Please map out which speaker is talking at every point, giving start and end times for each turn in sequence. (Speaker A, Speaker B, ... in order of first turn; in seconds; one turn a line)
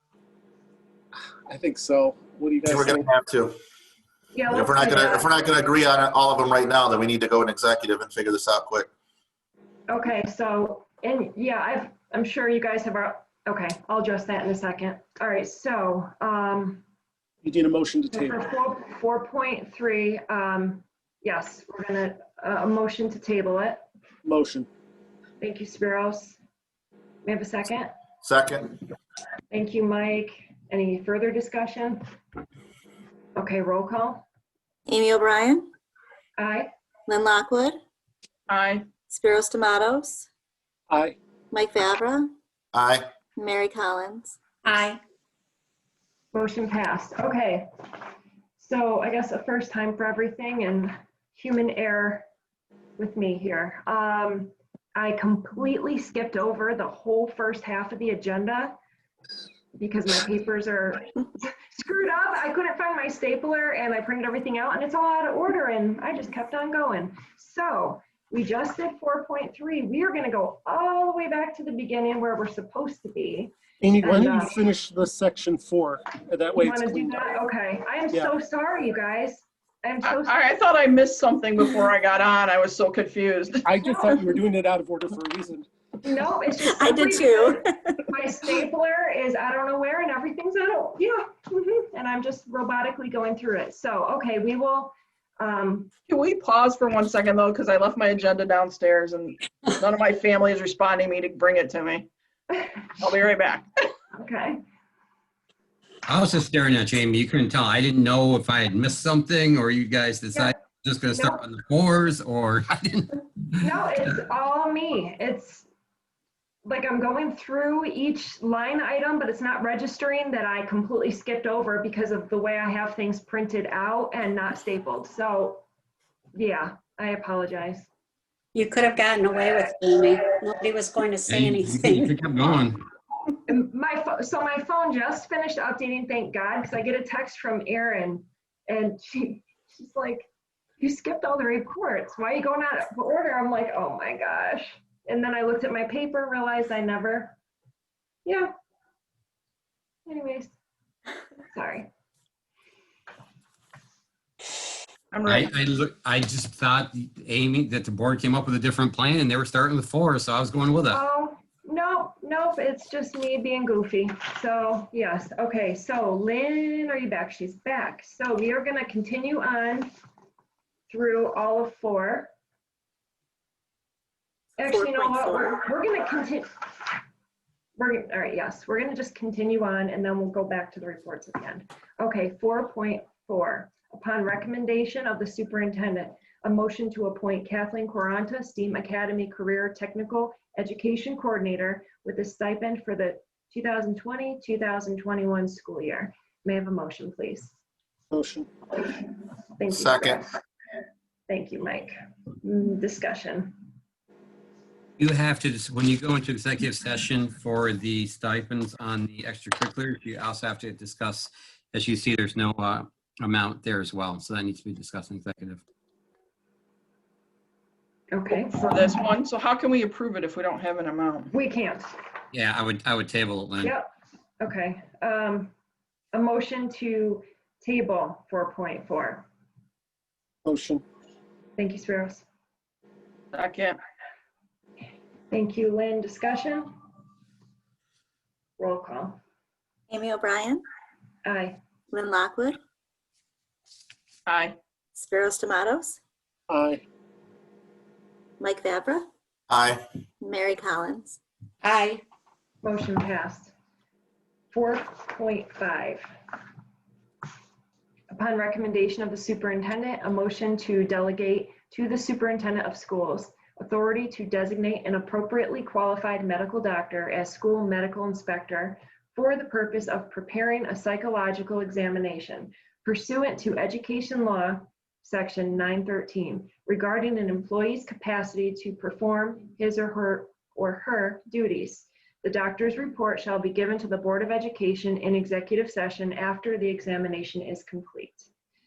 Speaker A: 1.4-3.1
Speaker B: 2.6-3.5
Speaker C: 4.3-5.3
Speaker B: 4.5-8.9
Speaker C: 9.9-16.8
Speaker A: 17.4-18.4
Speaker C: 18.1-23.8
Speaker A: 24.2-24.7
Speaker C: 25.4-26.4
Speaker C: 27.2-27.9
Speaker B: 28.2-28.8
Speaker C: 29.5-32.0
Speaker C: 33.4-34.2
Speaker D: 34.9-35.7
Speaker C: 36.4-36.7
Speaker D: 37.1-37.8
Speaker E: 38.5-38.9
Speaker D: 39.1-40.3
Speaker A: 40.9-41.1
Speaker D: 41.5-42.3
Speaker B: 42.7-43.1
Speaker D: 43.3-44.4
Speaker C: 46.3-47.7
Speaker C: 48.6-52.2
Speaker C: 53.0-58.8
Speaker C: 59.8-74.5
Speaker A: 73.8-77.3
Speaker C: 76.6-80.4
Speaker E: 80.0-83.7
Speaker A: 83.6-85.7
Speaker C: 83.8-84.2
Speaker C: 86.0-95.9
Speaker D: 86.7-88.0
Speaker E: 96.1-102.1
Speaker E: 103.0-103.7
Speaker C: 104.2-104.6
Speaker F: 106.1-113.2
Speaker C: 111.1-111.4
Speaker C: 113.6-115.7
Speaker C: 116.6-125.6
Speaker C: 126.3-127.9
Speaker G: 128.5-132.1
Speaker F: 131.3-132.8
Speaker C: 133.4-147.3
Speaker C: 148.2-148.5
Speaker C: 150.1-150.5
Speaker C: 151.5-151.9
Speaker E: 155.1-155.5
Speaker F: 155.2-161.0
Speaker C: 160.9-169.9
Speaker C: 170.9-172.3
Speaker C: 174.6-176.9
Speaker D: 174.7-175.6
Speaker C: 177.8-197.5
Speaker A: 198.1-198.5
Speaker C: 199.6-200.3
Speaker B: 199.7-200.2
Speaker C: 201.3-203.6
Speaker F: 205.0-215.6
Speaker C: 218.1-218.7
Speaker E: 218.3-221.3
Speaker C: 221.3-221.9
Speaker F: 222.3-223.7
Speaker C: 224.4-225.5
Speaker C: 226.1-229.3
Speaker A: 230.4-230.8
Speaker C: 231.6-232.2
Speaker E: 233.3-233.8
Speaker C: 235.3-236.7
Speaker C: 238.6-239.2
Speaker D: 239.9-240.6
Speaker C: 241.2-241.6
Speaker D: 241.9-242.6
Speaker E: 244.3-244.6
Speaker D: 244.9-246.0
Speaker A: 246.5-246.8
Speaker D: 248.4-249.1
Speaker B: 249.5-249.8
Speaker D: 250.2-251.2
Speaker G: 251.7-252.0
Speaker C: 252.6-253.5
Speaker C: 254.5-256.1
Speaker C: 258.1-288.3